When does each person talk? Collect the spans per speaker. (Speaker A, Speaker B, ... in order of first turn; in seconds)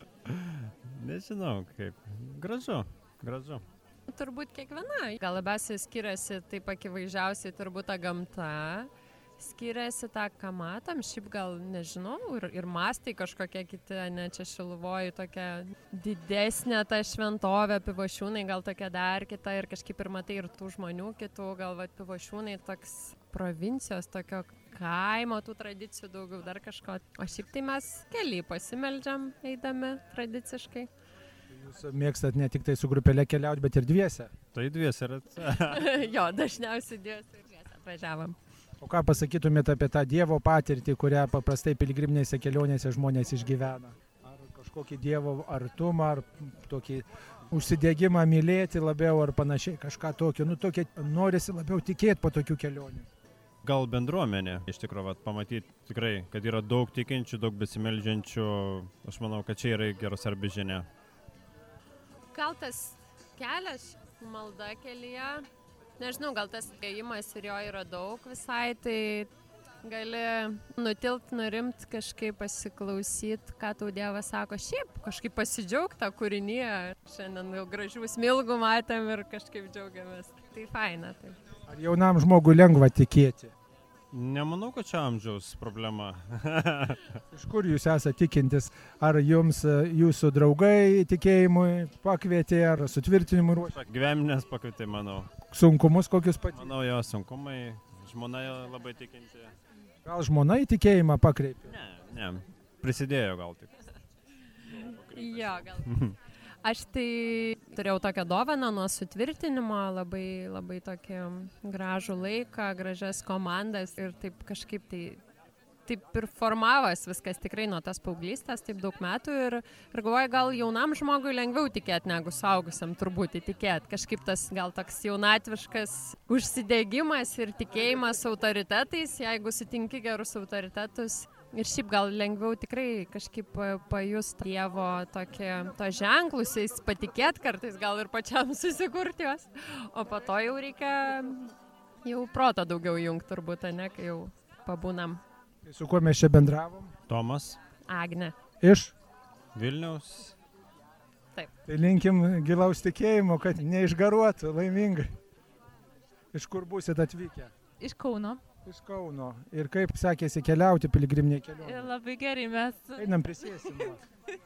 Speaker A: 0.3-3.6, 34.5-35.9, 53.6-60.9, 84.1-87.2, 93.7-95.3, 96.5-99.5, 101.7-103.8, 104.6-106.2, 147.1-147.6, 149.6-150.3
Speaker B: 4.1-30.9, 35.7-38.4, 62.3-65.5, 66.0-69.3, 69.8-81.4, 105.1-105.9, 106.6-115.2, 115.9-141.5, 142.0-145.2, 147.9-148.3
Speaker C: 31.5-34.3, 38.8-53.1, 81.7-83.5, 87.3-93.8, 95.5-96.7, 100.0-101.8, 145.6-146.9, 148.6-148.9, 151.7-155.2, 156.3-157.5, 158.7-161.9, 163.0-164.0
Speaker D: 157.8-158.4, 161.6-163.1